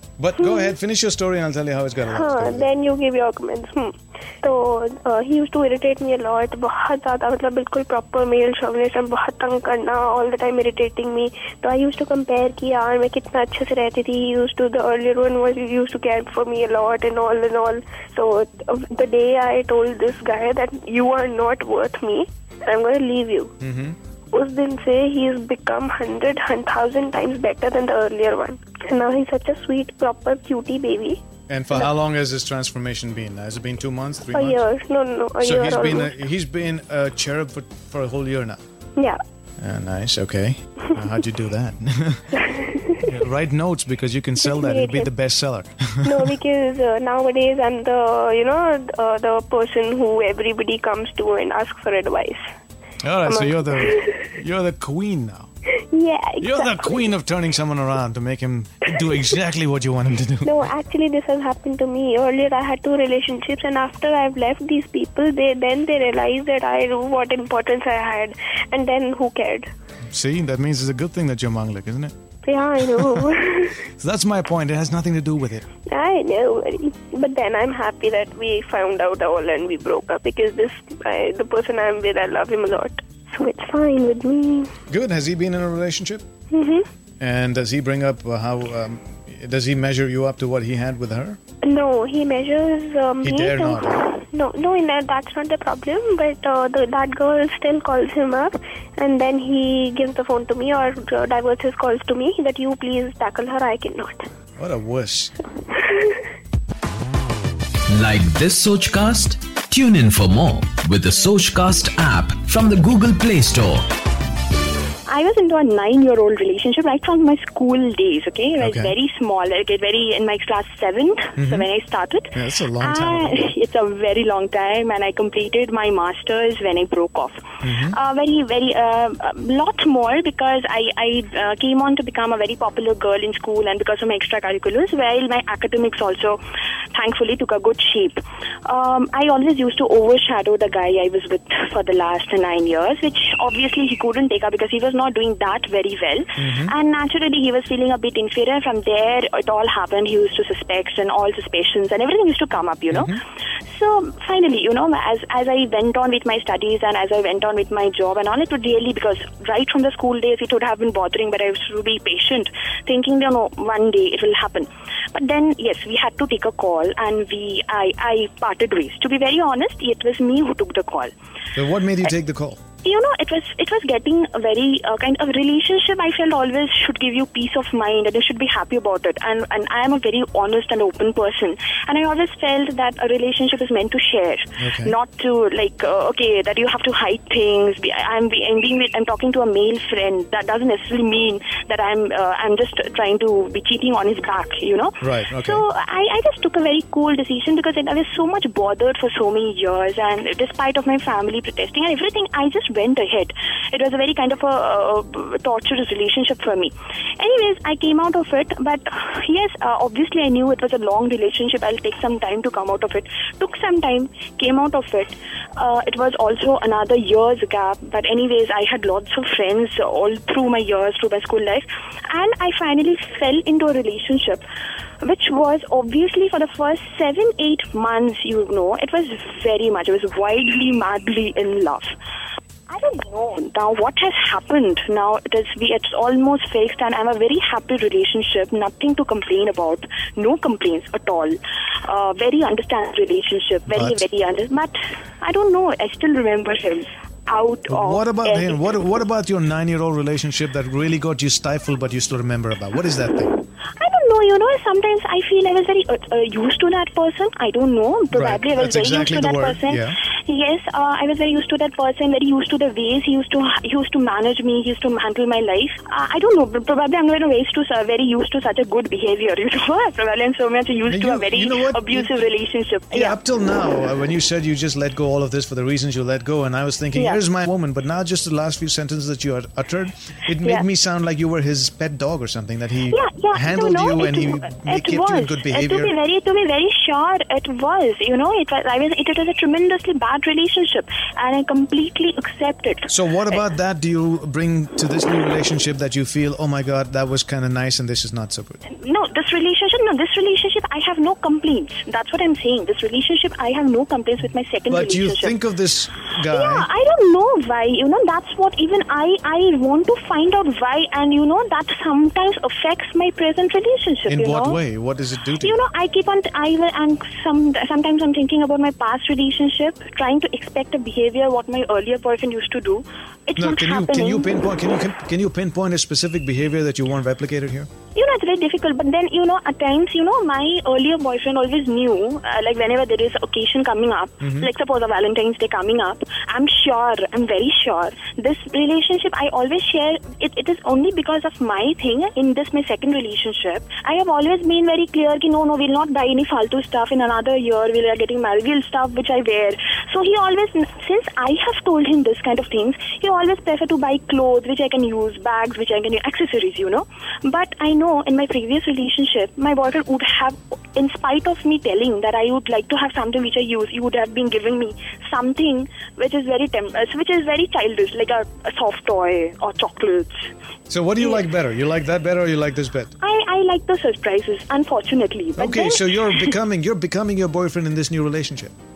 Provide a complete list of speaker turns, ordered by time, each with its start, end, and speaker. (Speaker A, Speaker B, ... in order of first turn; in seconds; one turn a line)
Speaker A: 0.2-2.7
Speaker B: 0.4-0.7
Speaker B: 2.1-23.5
Speaker A: 23.6-24.0
Speaker B: 24.3-31.2
Speaker A: 31.5-34.7
Speaker B: 34.3-36.1
Speaker A: 35.4-38.6
Speaker A: 39.6-42.4
Speaker B: 42.4-43.1
Speaker A: 43.0-46.3
Speaker B: 44.4-45.1
Speaker B: 46.0-52.5
Speaker A: 53.0-55.5
Speaker B: 53.3-54.1
Speaker B: 55.8-57.1
Speaker A: 56.4-60.7
Speaker B: 60.4-69.7
Speaker A: 70.1-72.2
Speaker B: 72.4-73.8
Speaker A: 72.9-73.3
Speaker A: 73.9-75.7
Speaker B: 75.9-84.7
Speaker A: 84.9-86.3
Speaker B: 86.5-86.9
Speaker A: 87.2-91.4
Speaker B: 91.6-104.3
Speaker A: 93.2-94.0
Speaker A: 104.6-105.4
Speaker C: 107.9-113.9
Speaker D: 115.1-136.4
Speaker A: 118.6-118.9
Speaker A: 121.4-121.7
Speaker A: 122.3-123.5
Speaker A: 127.6-128.0
Speaker D: 136.9-153.2
Speaker A: 146.4-146.7
Speaker A: 152.9-153.2
Speaker D: 153.7-171.1
Speaker A: 171.6-172.6
Speaker D: 172.8-224.4
Speaker A: 184.6-184.9
Speaker A: 195.0-195.7
Speaker D: 225.0-231.9
Speaker D: 232.7-248.7
Speaker A: 243.7-244.1
Speaker A: 247.7-253.4
Speaker D: 253.8-273.2
Speaker A: 258.1-260.0
Speaker A: 270.9-272.1
Speaker A: 272.9-285.9
Speaker D: 276.9-277.2
Speaker D: 282.9-293.4
Speaker A: 292.9-298.6
Speaker D: 298.7-305.4
Speaker A: 304.7-306.7
Speaker D: 306.3-314.6
Speaker A: 314.1-315.6
Speaker D: 315.4-324.3
Speaker A: 323.4-327.7
Speaker D: 327.9-370.3
Speaker A: 334.2-334.5
Speaker A: 370.7-372.9
Speaker D: 371.0-371.3
Speaker D: 373.0-376.3
Speaker A: 375.4-378.5